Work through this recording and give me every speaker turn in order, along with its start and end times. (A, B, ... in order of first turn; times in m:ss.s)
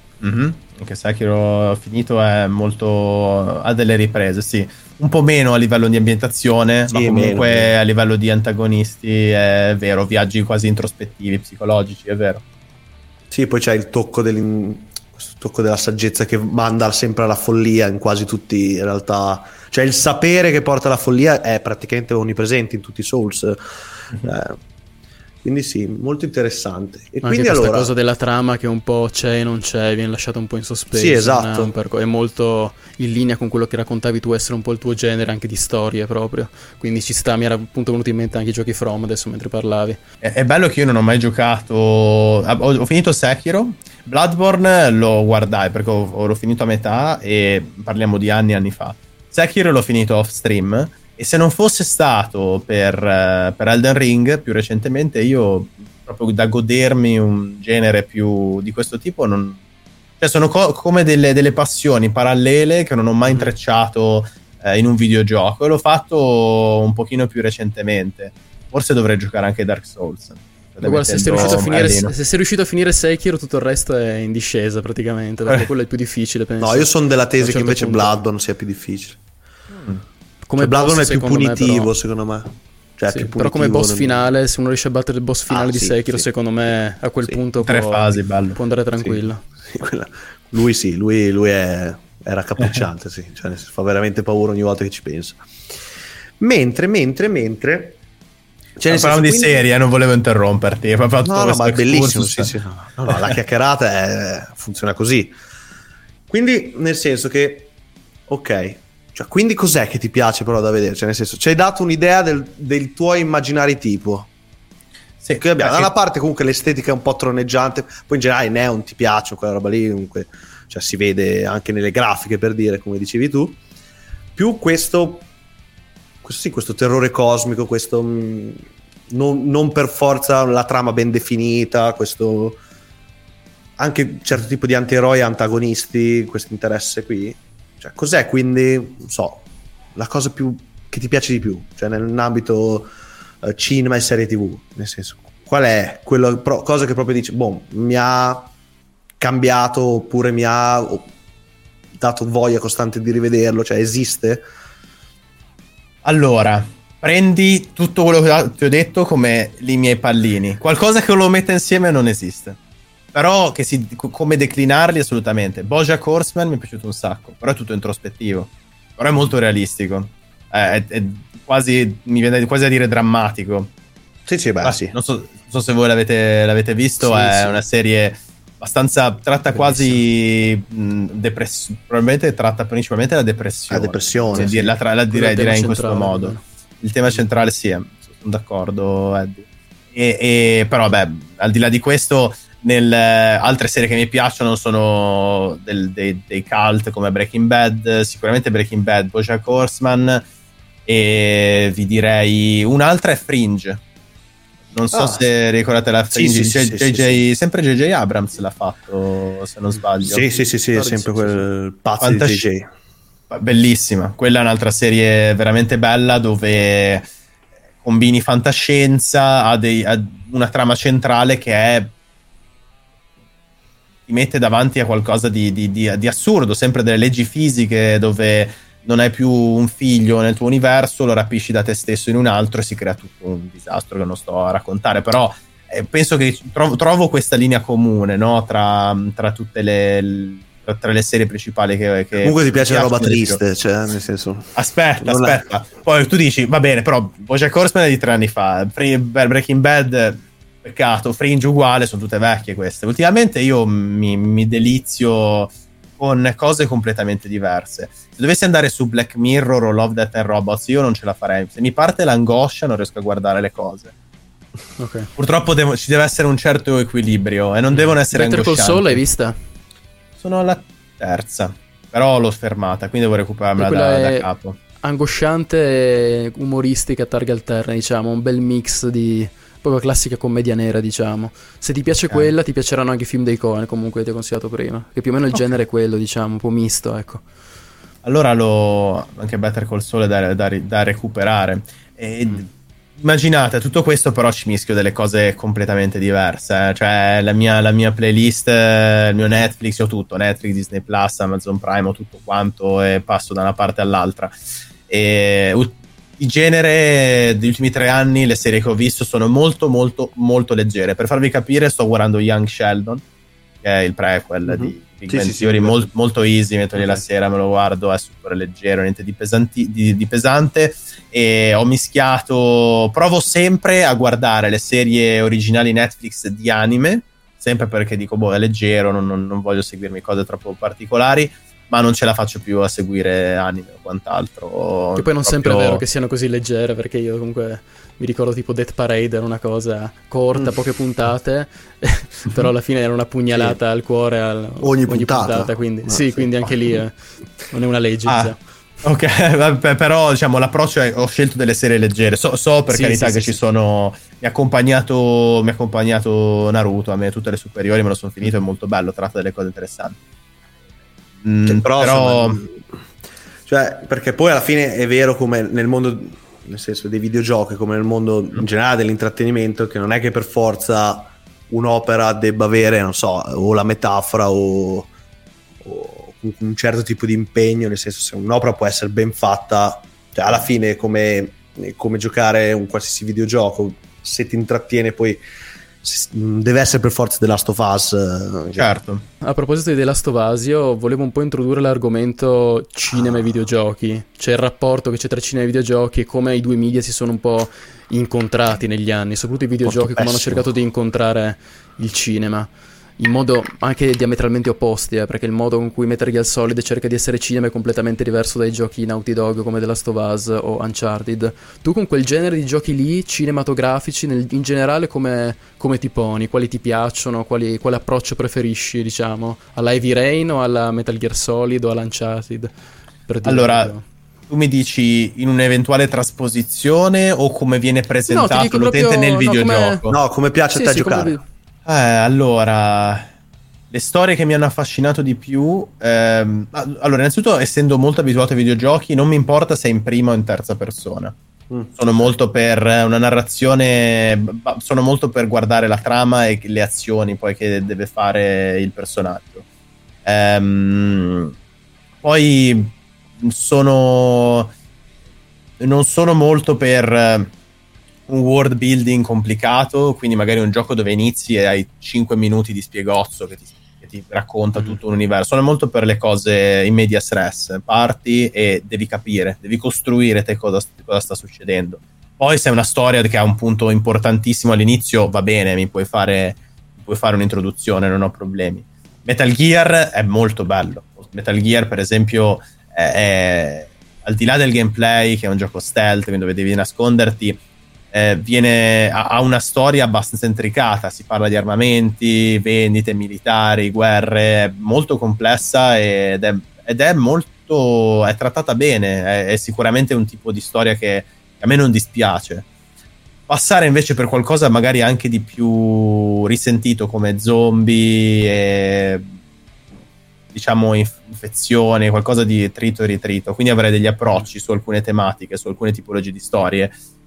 0:00.2-0:12.4 A
0:06.9-0:07.7 B
0:13.3-0:24.6 B
0:25.4-0:27.9 B
0:27.2-0:40.0 C
0:30.9-0:31.7 B
0:40.2-0:59.6 A
1:00.2-1:12.1 A
1:10.8-1:18.2 C
1:16.6-1:19.2 B
1:20.4-1:21.9 C
1:20.6-1:24.3 B
1:23.1-1:29.4 C
1:25.5-1:26.3 B
1:27.6-1:28.6 A
1:29.0-1:35.4 B
1:36.4-1:38.0 B
1:38.8-1:39.6 B
1:38.9-1:42.5 A
1:41.2-1:45.3 B
1:46.3-1:47.7 B
1:48.3-1:54.3 B
1:55.2-1:55.9 A
1:55.4-2:03.6 B
2:04.4-2:05.3 B
2:06.2-2:12.6 B
2:13.8-2:19.4 B
2:19.9-2:22.9 B
2:23.4-2:28.5 B
2:29.2-2:31.1 B
2:32.0-2:34.4 B
2:36.0-2:42.6 A
2:43.1-2:53.7 A
2:54.3-2:54.9 B
2:54.6-3:20.2 A
2:57.2-2:57.6 B
2:59.5-3:00.0 C
3:03.7-3:04.7 B
3:04.3-3:06.4 C
3:20.8-3:23.8 A
3:24.7-3:30.2 A
3:24.9-3:25.2 B
3:26.1-3:27.2 B
3:30.0-3:32.7 B
3:30.7-3:31.4 C
3:32.0-3:32.4 A
3:33.3-3:37.0 A
3:37.8-3:41.9 A
3:44.1-4:03.4 A
4:02.2-4:05.4 B
4:04.6-4:23.9 A
4:24.8-4:25.1 C
4:25.2-4:29.0 A
4:27.7-4:29.4 C
4:30.2-4:34.6 A
4:33.6-4:34.3 C
4:34.8-4:47.2 C
4:48.0-5:04.4 A
5:04.9-5:13.0 A
5:13.6-5:35.8 A
5:14.4-5:15.9 B
5:35.0-5:48.4 C
5:43.3-5:43.6 B
5:44.6-5:46.5 B
5:48.0-6:00.0 A
5:52.7-5:53.4 C
6:01.2-6:02.4 A
6:01.4-6:02.6 B
6:03.4-6:14.9 B
6:15.6-6:25.2 B
6:25.8-6:28.6 B
6:28.6-6:29.0 A
6:29.2-7:02.5 C
6:39.8-6:40.3 B
7:03.1-7:03.8 C
7:03.2-7:03.7 A
7:04.3-7:10.0 A
7:08.1-7:09.8 C
7:09.9-7:11.2 B
7:10.5-7:11.2 C
7:11.6-7:13.1 A
7:13.7-7:21.1 A
7:21.8-7:29.4 A
7:30.0-7:31.3 A
7:32.0-7:34.5 A
7:35.6-7:37.3 A
7:38.1-8:07.4 A
8:07.9-8:22.4 A
8:23.3-8:29.1 A
8:30.3-8:36.7 A